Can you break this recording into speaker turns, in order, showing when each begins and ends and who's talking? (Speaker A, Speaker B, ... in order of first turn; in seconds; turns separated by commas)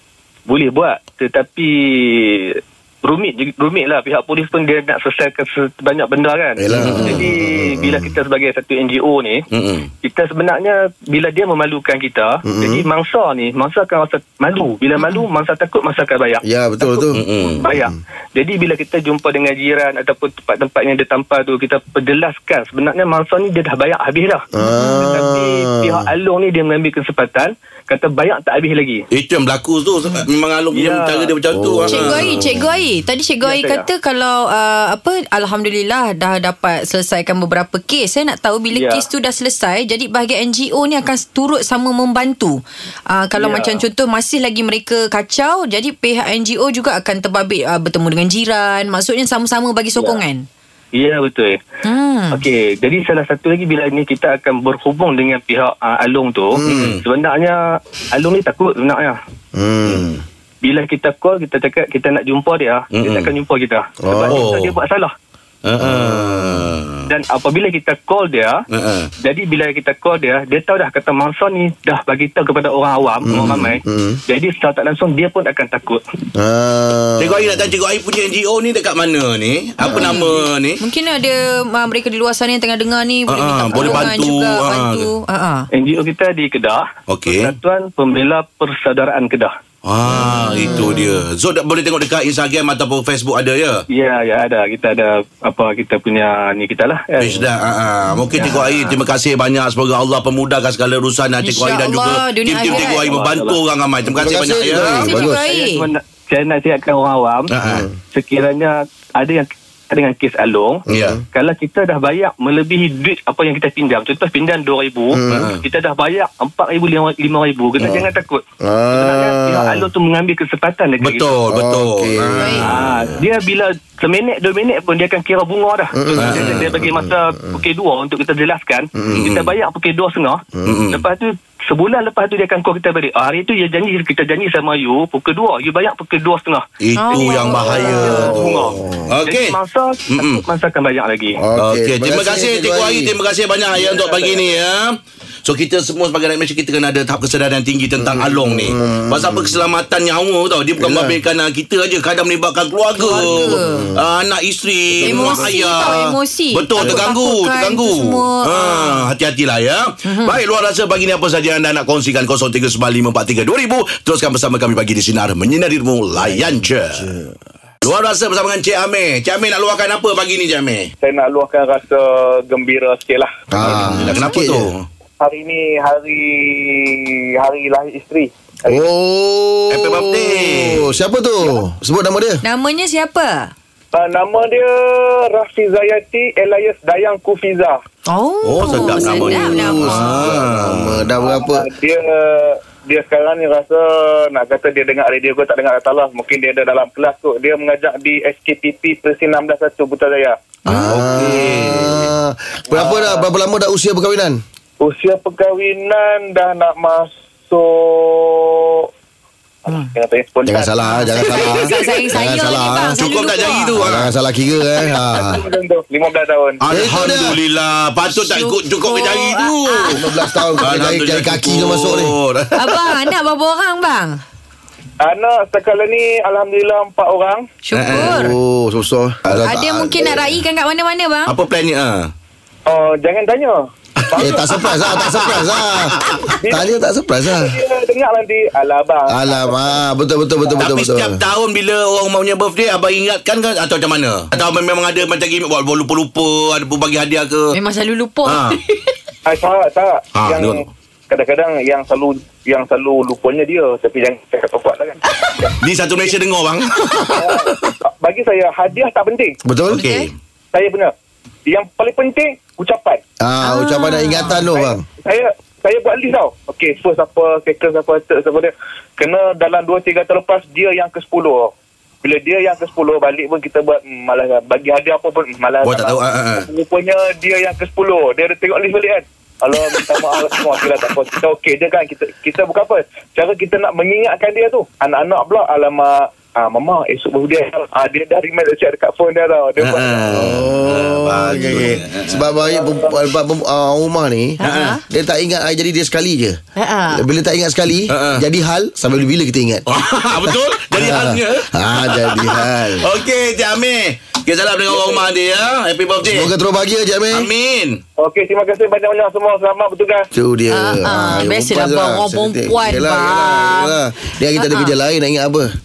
Speaker A: 0.5-9.4, Speaker B: 6.6-8.1, Speaker C: 6.7-7.2, Speaker C: 9.5-9.9, Speaker A: 10.0-29.0, Speaker B: 12.4-12.9, Speaker B: 16.4-17.2, Speaker C: 17.1-17.7, Speaker B: 24.5-26.1, Speaker D: 24.6-25.0, Speaker C: 29.1-32.5, Speaker A: 30.7-31.3, Speaker B: 31.5-32.8, Speaker D: 31.9-50.4, Speaker A: 33.4-33.8, Speaker A: 38.7-39.0, Speaker A: 43.4-43.8, Speaker A: 50.9-51.6, Speaker D: 51.8-52.4, Speaker A: 52.3-57.6, Speaker B: 56.5-57.0, Speaker C: 56.6-57.0, Speaker A: 58.1-59.1, Speaker B: 59.5-60.1, Speaker C: 59.9-60.2, Speaker A: 60.6-65.1, Speaker C: 62.9-63.3, Speaker B: 64.0-64.4, Speaker C: 64.3-64.8, Speaker C: 65.6-67.1, Speaker B: 65.8-66.4, Speaker A: 67.1-68.6, Speaker C: 68.7-69.1, Speaker A: 69.2-76.0, Speaker B: 73.2-74.2, Speaker C: 73.3-73.7, Speaker B: 76.3-77.7, Speaker C: 77.2-80.8, Speaker B: 79.8-80.2, Speaker D: 79.9-85.7, Speaker C: 83.3-85.1, Speaker A: 85.8-89.5, Speaker C: 87.1-87.5, Speaker C: 89.8-93.8, Speaker D: 90.4-91.0, Speaker A: 93.9-97.4, Speaker C: 97.2-105.2, Speaker D: 98.3-98.8, Speaker D: 101.4-103.0, Speaker A: 102.6-103.6, Speaker B: 104.1-105.4, Speaker D: 105.0-105.9, Speaker A: 105.2-107.5, Speaker C: 107.5-107.9, Speaker A: 108.1-121.3, Speaker B: 110.9-111.2, Speaker C: 110.9-111.2, Speaker B: 115.1-115.5, Speaker C: 115.3-115.6, Speaker B: 118.6-119.9, Speaker C: 121.0-123.2, Speaker B: 121.5-122.8, Speaker D: 122.4-122.7, Speaker A: 122.6-136.6, Speaker B: 125.9-127.6, Speaker C: 126.2-126.8, Speaker B: 129.0-129.3, Speaker C: 129.1-129.5, Speaker B: 130.6-130.8, Speaker C: 130.7-131.0, Speaker C: 136.8-139.6, Speaker D: 136.9-138.3, Speaker A: 137.2-141.4, Speaker B: 137.6-139.1, Speaker C: 140.1-140.4, Speaker B: 141.4-143.2, Speaker C: 141.6-167.1, Speaker E: 143.8-144.4, Speaker B: 148.0-149.6, Speaker B: 150.8-151.2, Speaker D: 152.9-153.9, Speaker B: 153.1-154.0, Speaker B: 154.9-155.5, Speaker D: 155.0-159.1, Speaker B: 156.8-157.1, Speaker D: 160.0-160.4, Speaker B: 166.1-167.3, Speaker C: 167.8-170.9, Speaker E: 171.0-173.3, Speaker B: 173.5-174.7, Speaker C: 173.6-174.9, Speaker E: 175.2-178.8, Speaker B: 178.7-182.4, Speaker C: 179.7-180.9, Speaker D: 182.4-183.5, Speaker E: 183.9-187.8, Speaker D: 188.1-190.2, Speaker C: 188.4-191.1, Speaker B: 189.0-191.7, Speaker E: 191.2-200.3, Speaker B: 200.7-204.4, Speaker C: 200.7-202.1, Speaker E: 202.7-203.3, Speaker E: 204.8-208.9, Speaker E: 209.7-211.8, Speaker B: 210.4-212.9, Speaker D: 210.8-213.8, Speaker C: 212.6-214.1, Speaker B: 213.7-215.4, Speaker E: 214.9-216.6, Speaker C: 216.6-219.9, Speaker B: 216.7-217.4, Speaker D: 218.1-220.6, Speaker B: 219.9-222.1, Speaker C: 220.6-223.1, Speaker D: 222.6-224.2, Speaker E: 225.0-227.4, Speaker D: 227.6-228.3, Speaker C: 227.7-228.3, Speaker B: 227.9-230.3, Speaker C: 229.2-229.5, Speaker D: 229.4-231.3, Speaker C: 231.3-232.1, Speaker E: 232.7-234.9, Speaker B: 234.2-237.6, Speaker C: 235.0-236.3, Speaker E: 236.4-236.7, Speaker E: 237.3-239.8, Speaker B: 239.1-241.2, Speaker C: 240.5-247.5, Speaker D: 247.5-248.9, Speaker C: 248.2-248.6, Speaker E: 249.2-256.2, Speaker C: 250.1-250.7, Speaker C: 255.6-257.3, Speaker E: 257.1-259.3, Speaker B: 259.4-259.8, Speaker C: 259.7-260.1, Speaker D: 259.7-260.1, Speaker E: 260.5-260.9, Speaker E: 261.4-263.0, Speaker B: 263.2-264.8, Speaker D: 263.4-264.4, Speaker E: 264.5-271.5, Speaker E: 272.0-290.1, Speaker C: 275.6-276.5, Speaker C: 289.6-292.3, Speaker B: 290.1-296.4, Speaker D: 291.3-291.7, Speaker E: 292.4-292.9, Speaker D: 294.4-294.8, Speaker C: 294.4-294.8, Speaker D: 296.6-297.0, Speaker B: 296.9-299.7, Speaker C: 297.9-298.2, Speaker C: 299.7-306.3, Speaker B: 300.2-302.9, Speaker B: 306.1-307.3, Speaker C: 307.1-307.8, Speaker E: 308.0-310.1, Speaker B: 310.1-315.5, Speaker D: 310.5-313.8, Speaker D: 314.4-314.7